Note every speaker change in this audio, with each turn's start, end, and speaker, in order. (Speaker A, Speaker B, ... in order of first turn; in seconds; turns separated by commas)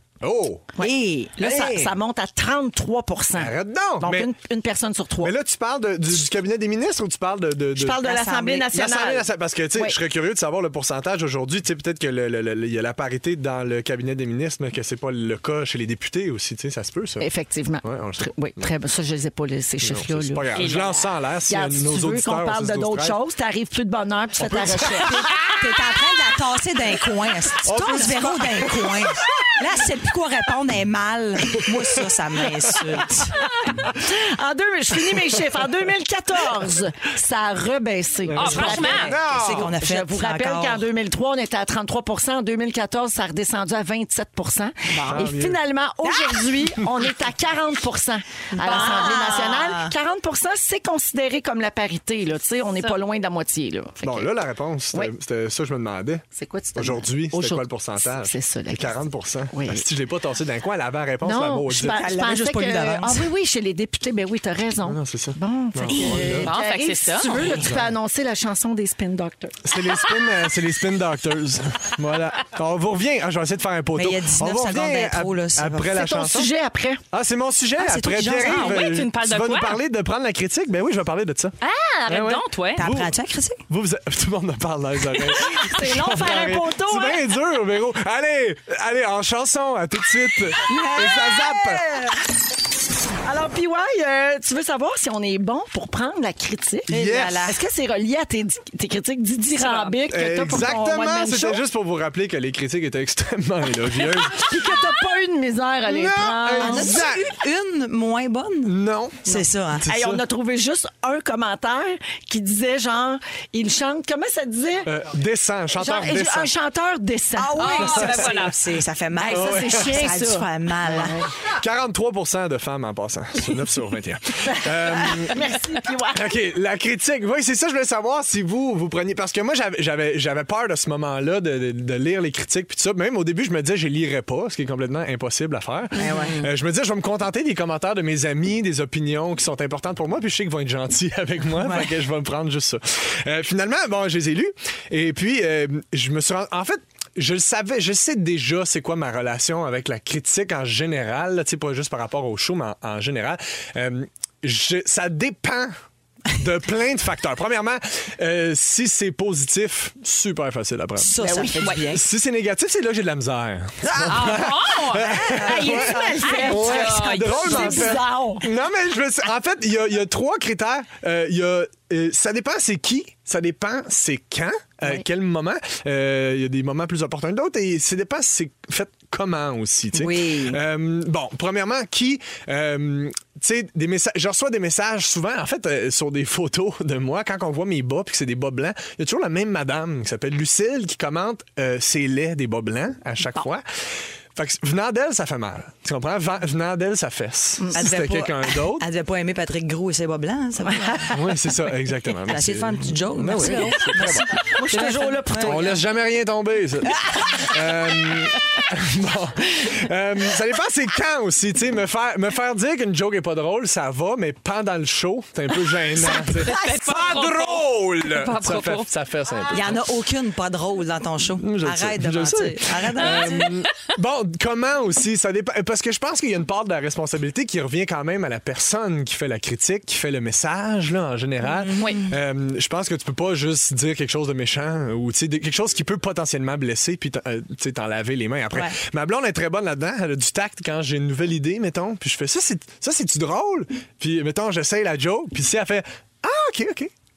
Speaker A: 0.2-0.7, Speaker B: 0.8-5.3, Speaker C: 0.8-1.9, Speaker A: 1.4-1.9, Speaker A: 3.4-4.3, Speaker A: 5.2-8.1, Speaker B: 7.8-10.0, Speaker C: 8.0-8.7, Speaker A: 8.7-17.3, Speaker B: 17.2-20.5, Speaker A: 17.8-18.7, Speaker A: 19.8-23.2, Speaker D: 20.5-21.1, Speaker B: 21.5-25.3, Speaker A: 24.4-25.3, Speaker C: 24.7-33.4, Speaker A: 27.6-29.2, Speaker B: 33.7-54.3, Speaker A: 38.3-39.7, Speaker D: 38.4-39.2, Speaker C: 38.4-40.9, Speaker C: 44.9-45.3, Speaker A: 45.0-45.6, Speaker D: 48.6-49.5, Speaker C: 48.6-49.9, Speaker A: 54.0-56.2, Speaker B: 56.3-59.0, Speaker A: 56.8-62.0, Speaker B: 59.5-59.9, Speaker B: 61.2-69.6, Speaker C: 61.8-63.3, Speaker A: 64.8-66.5, Speaker D: 66.4-67.3, Speaker A: 67.4-67.9, Speaker A: 69.6-76.5, Speaker C: 73.9-76.0, Speaker B: 76.0-77.0, Speaker A: 77.1-81.5, Speaker C: 77.8-78.9, Speaker D: 78.4-79.8, Speaker D: 81.6-82.8, Speaker A: 82.1-83.1, Speaker C: 82.8-83.6, Speaker A: 83.7-91.8, Speaker B: 85.4-87.2, Speaker B: 90.7-91.8, Speaker B: 93.2-101.6, Speaker A: 96.9-97.5, Speaker C: 96.9-97.6, Speaker D: 99.6-100.0, Speaker A: 100.1-104.6, Speaker B: 104.3-107.0, Speaker A: 105.9-107.3, Speaker C: 106.6-109.9, Speaker A: 108.7-110.2, Speaker B: 109.9-114.9, Speaker A: 114.9-116.5, Speaker B: 115.8-118.2, Speaker C: 117.4-121.2, Speaker D: 117.6-118.6, Speaker A: 117.8-118.3, Speaker B: 119.2-121.2, Speaker A: 119.3-120.0, Speaker A: 121.6-125.4, Speaker B: 124.5-126.3, Speaker A: 126.1-155.7, Speaker C: 136.0-136.4, Speaker C: 141.6-141.9, Speaker A: 156.4-193.8, Speaker C: 161.0-162.0, Speaker B: 161.2-161.8, Speaker C: 163.9-166.7, Speaker D: 164.1-165.1, Speaker B: 165.4-168.5, Speaker D: 166.2-167.9, Speaker C: 179.9-180.6, Speaker A: 194.3-198.8, Speaker C: 197.8-201.1, Speaker B: 200.7-201.2, Speaker A: 201.1-204.4, Speaker C: 202.3-205.8, Speaker B: 203.4-205.8, Speaker A: 205.4-219.8, Speaker D: 216.0-218.9, Speaker C: 219.5-223.5, Speaker A: 221.4-246.9, Speaker D: 223.0-223.9, Speaker C: 231.4-232.2